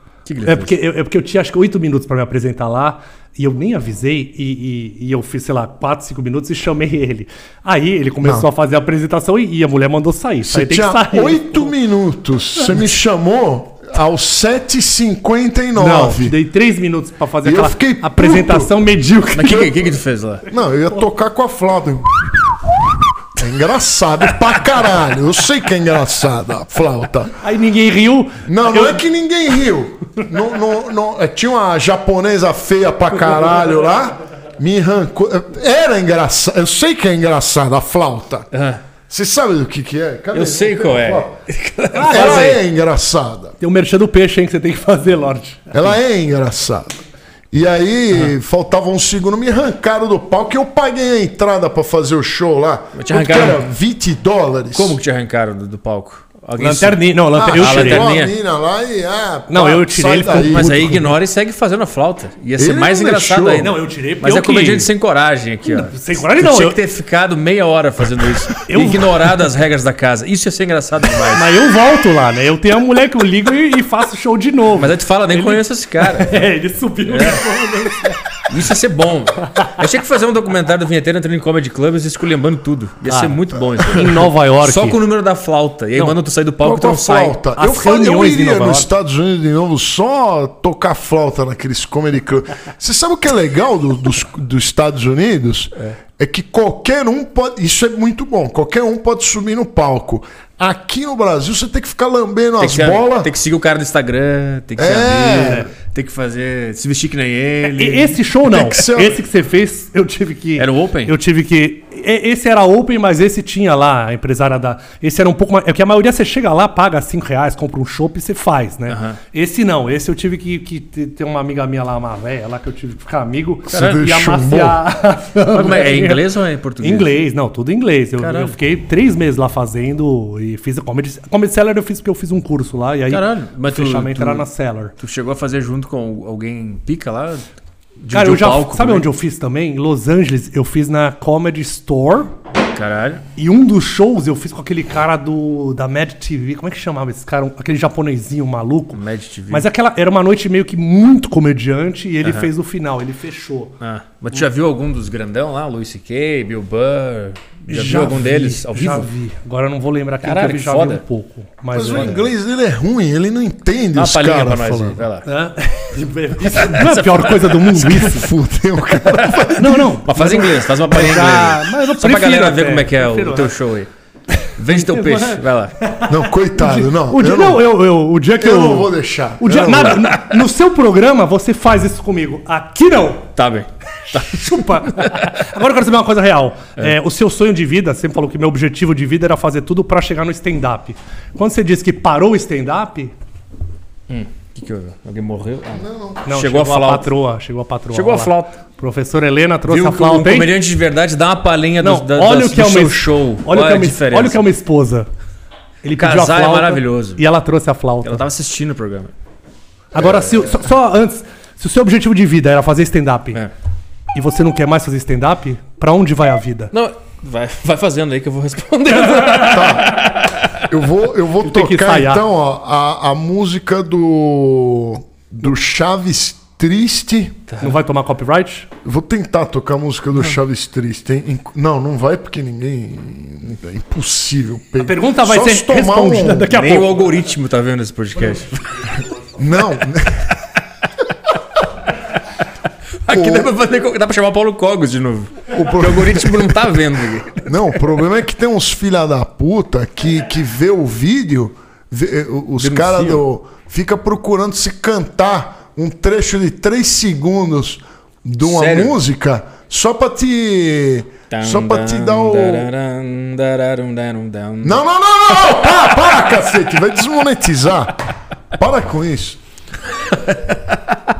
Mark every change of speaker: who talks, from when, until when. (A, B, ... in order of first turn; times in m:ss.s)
0:00.2-0:00.8 A
0:00.4-0:11.7 B
0:08.2-0:08.5 C
0:10.5-0:16.3 C
0:15.7-0:19.9 B
0:17.4-0:18.7 C
0:19.3-0:20.5 A
0:20.5-0:22.6 C
0:23.4-0:27.4 C
0:27.4-0:29.0 B
0:28.4-0:38.5 C
0:38.5-0:38.8 A
0:39.1-0:41.3 C
0:40.3-0:42.6 A
0:41.9-0:42.6 B
0:42.0-0:43.5 C
0:43.6-0:45.7 B
0:45.7-0:47.0 C
0:47.5-0:55.0 C
0:52.9-0:53.6 A
0:54.7-0:57.0 A
0:56.6-0:58.1 B
0:57.3-1:00.8 C
0:57.5-0:58.3 A
0:59.5-1:01.1 B
1:00.4-1:11.6 A
1:02.6-1:03.7 C
1:03.6-1:04.9 B
1:05.6-1:06.8 B
1:08.6-1:09.2 B
1:11.3-1:18.2 B
1:14.7-1:16.5 A
1:17.1-1:17.4 A
1:18.5-1:27.4 A
1:23.0-1:25.0 B
1:26.6-1:43.3 C
1:27.6-1:28.9 B
1:42.6-1:48.2 A
1:44.8-1:45.6 C
1:45.4-1:45.7 B
1:47.7-2:06.2 B
1:48.5-1:49.2 C
1:50.6-1:51.1 A
1:58.9-1:59.2 A
2:03.7-2:04.8 C
2:03.7-2:04.1 A
2:05.5-2:07.1 A
2:06.8-2:14.9 B
2:08.2-2:08.6 A
2:13.1-2:14.5 A
2:15.0-2:17.5 A
2:18.0-2:19.0 A
2:18.1-2:22.3 B
2:22.7-2:23.2 A
2:23.4-2:33.8 B
2:28.9-2:29.7 A
2:33.8-2:39.1 A
2:37.7-2:42.3 B
2:40.2-2:41.0 A
2:41.7-2:45.0 C
2:43.9-2:45.3 A
2:45.2-2:48.3 B
2:46.4-2:48.1 A
2:47.7-2:50.0 C
2:49.0-2:49.5 A
2:49.5-2:53.6 B
2:50.0-2:53.9 A
2:54.4-3:03.3 B
2:54.6-2:55.7 A
2:56.1-2:57.6 C
2:58.4-3:00.0 C
2:59.7-3:00.2 A
3:03.4-3:05.3 A
3:04.1-3:13.1 B
3:14.1-3:17.1 A
3:15.7-3:16.2 C
3:16.2-3:20.5 B
3:17.9-3:18.6 A
3:19.7-3:24.4 A
3:21.8-3:25.1 B
3:25.8-3:28.2 B
3:26.0-3:27.2 A
3:28.0-3:29.1 A
3:29.9-3:33.4 B
3:30.0-3:30.4 A
3:34.1-3:36.7 B
3:36.7-3:40.6 A
3:39.4-3:40.0 C
3:40.7-3:47.4 C
3:41.4-3:42.2 B
3:47.6-3:48.7 B
3:48.8-3:56.6 C
3:54.8-3:56.9 B
3:56.5-3:58.9 A
3:59.4-4:00.3 C
4:03.0-4:07.5 A
4:03.1-4:03.5 C
4:05.5-4:06.6 C
4:07.4-4:22.7 C
4:12.6-4:13.2 A
4:18.4-4:19.0 A
4:21.3-4:24.8 A
4:24.6-4:28.0 C
4:25.4-4:25.8 A
4:28.5-4:29.4 C
4:30.1-4:30.6 A